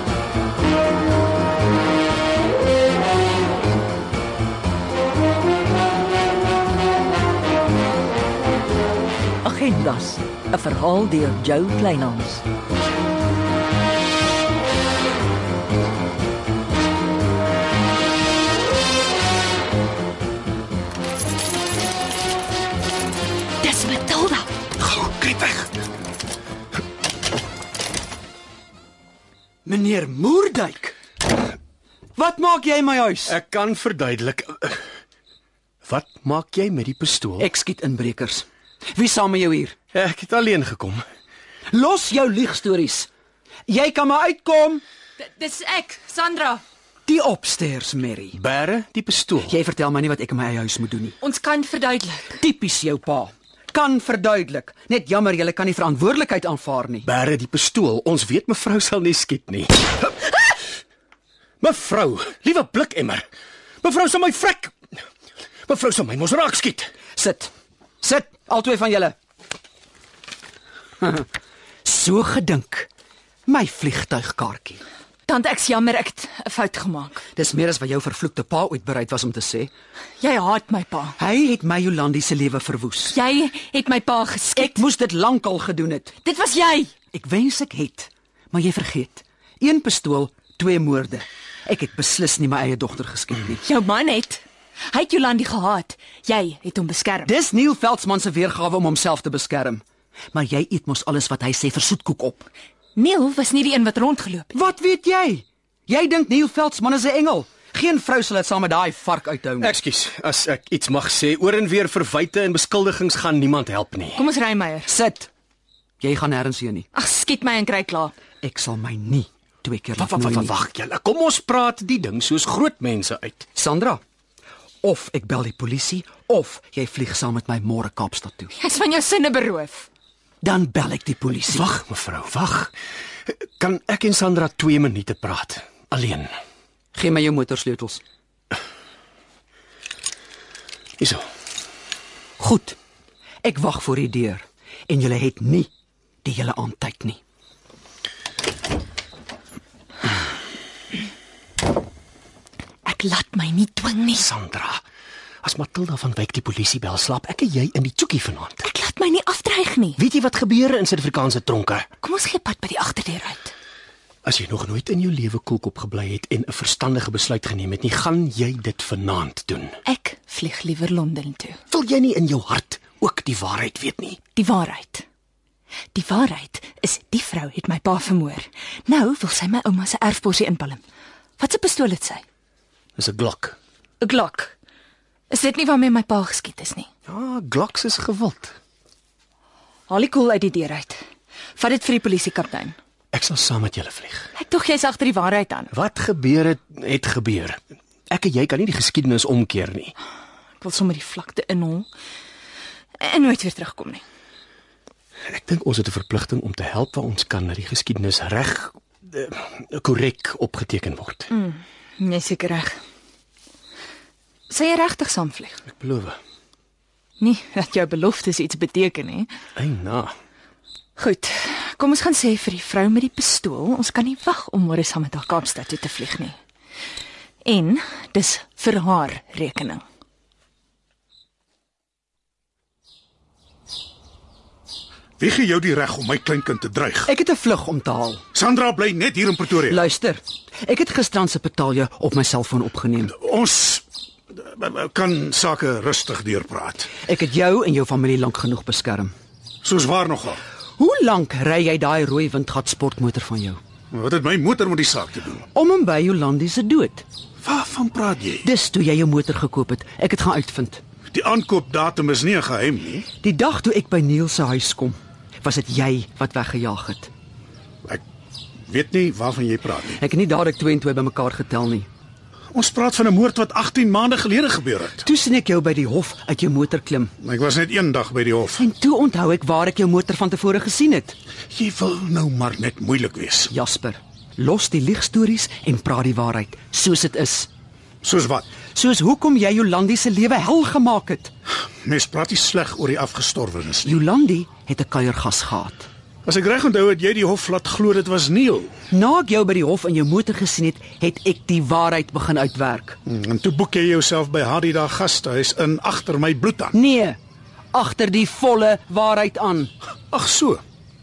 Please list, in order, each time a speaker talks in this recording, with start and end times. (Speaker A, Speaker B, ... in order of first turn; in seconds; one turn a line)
Speaker A: 9.4-12.4
Speaker B: 23.6-24.4
Speaker B: 25.0-25.3
Speaker B: 29.7-30.9
Speaker B: 32.1-33.3
Speaker C: 33.3-34.8
Speaker C: 35.8-37.5
Speaker B: 37.4-39.8
Speaker C: 39.9-41.0
Speaker B: 41.7-43.1
Speaker B: 43.7-44.8
Speaker D: 45.2-46.6
Speaker B: 47.0-48.4
Speaker C: 48.3-49.5
Speaker B: 49.5-51.2
Speaker D: 51.2-52.4
Speaker B: 52.3-57.1
Speaker C: 57.0-60.5
Speaker C: 61.6-63.2
Speaker C: 63.8-64.8
Speaker C: 65.7-66.9
Speaker B: 67.2-69.2
Speaker B: 71.0-71.3
Speaker B: 71.8-72.9
Speaker B: 73.5-74.8
Speaker D: 75.3-77.2
Speaker B: 77.3-79.7
Speaker D: 80.2-81.2
Speaker B: 81.2-83.2
Speaker D: 83.1-84.8
Speaker B: 84.5-86.1
Speaker D: 86.2-86.9
Speaker B: 87.1-93.6
Speaker D: 93.6-97.3
Speaker B: 97.2-102.5
Speaker D: 103.0-104.5
Speaker B: 104.5-109.8
Speaker C: 109.6-114.2
Speaker D: 114.2-114.9
Speaker B: 114.9-115.3
Speaker B: 116.0-116.9
Speaker D: 116.9-118.1
Speaker B: 118.4-120.5
Speaker C: 120.0-123.5
Speaker B: 123.5-124.0
Speaker B: 124.8-128.5
Speaker D: 128.6-129.9
Speaker B: 130.4-131.7
Speaker C: 131.5-132.7
Speaker C: 133.3-136.3
Speaker B: 136.9-138.0
Speaker B: 142.4-142.8
Speaker B: 143.4-145.7
Speaker B: 146.2-147.2
Speaker D: 152.8-154.2
Speaker C: 154.2-154.8
Speaker C: 155.4-158.6
Speaker D: 158.6-160.0
Speaker C: 160.0-161.9
Speaker D: 162.0-163.5
Speaker C: 164.2-169.8
Speaker D: 169.8-171.6
Speaker C: 171.7-174.2
Speaker D: 174.3-175.1
Speaker D: 175.9-180.8
Speaker D: 181.4-182.2
Speaker C: 183.0-183.6
Speaker D: 184.0-184.6
Speaker D: 185.3-186.9
Speaker C: 187.1-188.5
Speaker D: 189.9-191.0
Speaker D: 191.6-192.8
Speaker C: 193.1-194.3
Speaker D: 194.3-195.7
Speaker C: 195.7-199.9
Speaker D: 200.6-201.9
Speaker D: 203.0-204.0
Speaker C: 205.3-211.3
Speaker D: 211.3-212.8
Speaker D: 214.5-215.6
Speaker C: 215.7-216.2
Speaker D: 217.2-219.3
Speaker C: 219.6-220.1
Speaker D: 221.0-226.4
Speaker D: 227.4-229.8
Speaker E: 235.2-237.1
Speaker B: 237.1-238.2
Speaker E: 238.3-239.8
Speaker B: 239.6-243.2
Speaker E: 243.1-243.8
Speaker E: 244.4-246.9
Speaker B: 247.0-249.1
Speaker E: 249.6-250.4
Speaker B: 250.8-253.6
Speaker E: 253.9-255.4
Speaker B: 255.5-257.0
Speaker E: 257.4-258.4
Speaker B: 258.4-260.8
Speaker E: 261.1-263.1
Speaker B: 263.2-267.1
Speaker E: 268.6-270.0
Speaker B: 270.0-271.9
Speaker E: 272.5-275.1
Speaker B: 275.0-277.1
Speaker E: 277.2-278.6
Speaker B: 278.6-281.2
Speaker E: 281.5-283.5
Speaker B: 283.5-287.5
Speaker E: 288.0-288.4
Speaker B: 288.7-291.3
Speaker E: 291.8-294.0
Speaker B: 293.8-295.9
Speaker E: 296.2-298.7
Speaker B: 298.9-303.0
Speaker E: 303.0-306.8
Speaker B: 306.7-307.2
Speaker B: 307.7-309.7
Speaker E: 310.1-310.6